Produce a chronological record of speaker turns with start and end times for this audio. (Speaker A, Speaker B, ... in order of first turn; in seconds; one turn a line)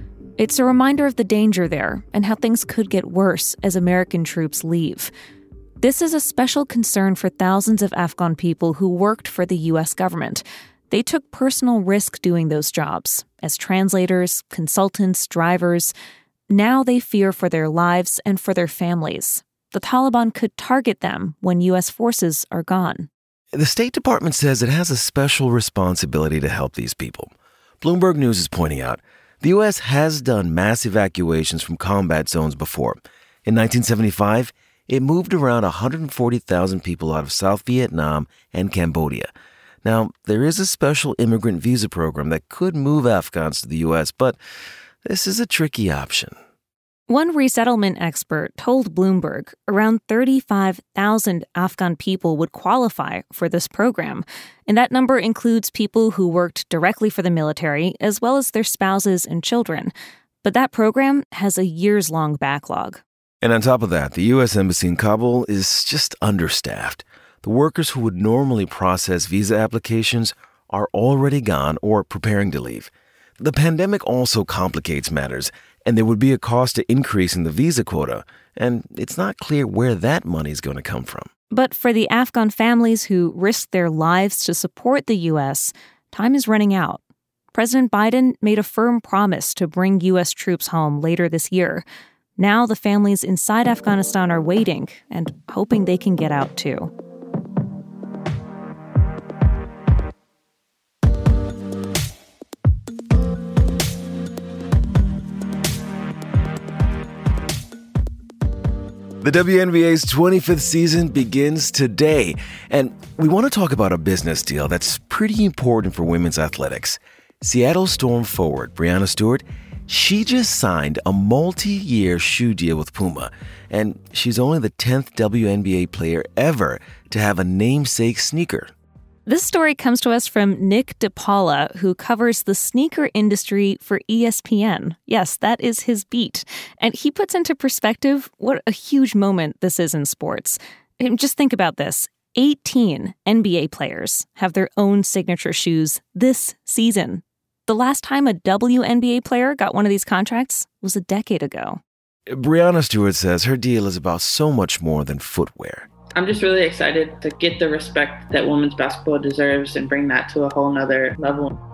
Speaker A: 0.4-5.1
Speaker A: 5.8-15.9
Speaker A: 16.5-23.1
Speaker B: 23.5-39.3
Speaker B: 39.8-44.4
Speaker B: 45.0-46.4
Speaker A: 47.1-63.0
Speaker B: 63.4-81.3
Speaker A: 81.5-87.0
Speaker A: 87.5-91.8
Speaker A: 92.4-96.9
Speaker B: 109.2-128.7
Speaker A: 129.3-151.8
Speaker B: 152.3-155.9
Speaker C: 156.1-161.6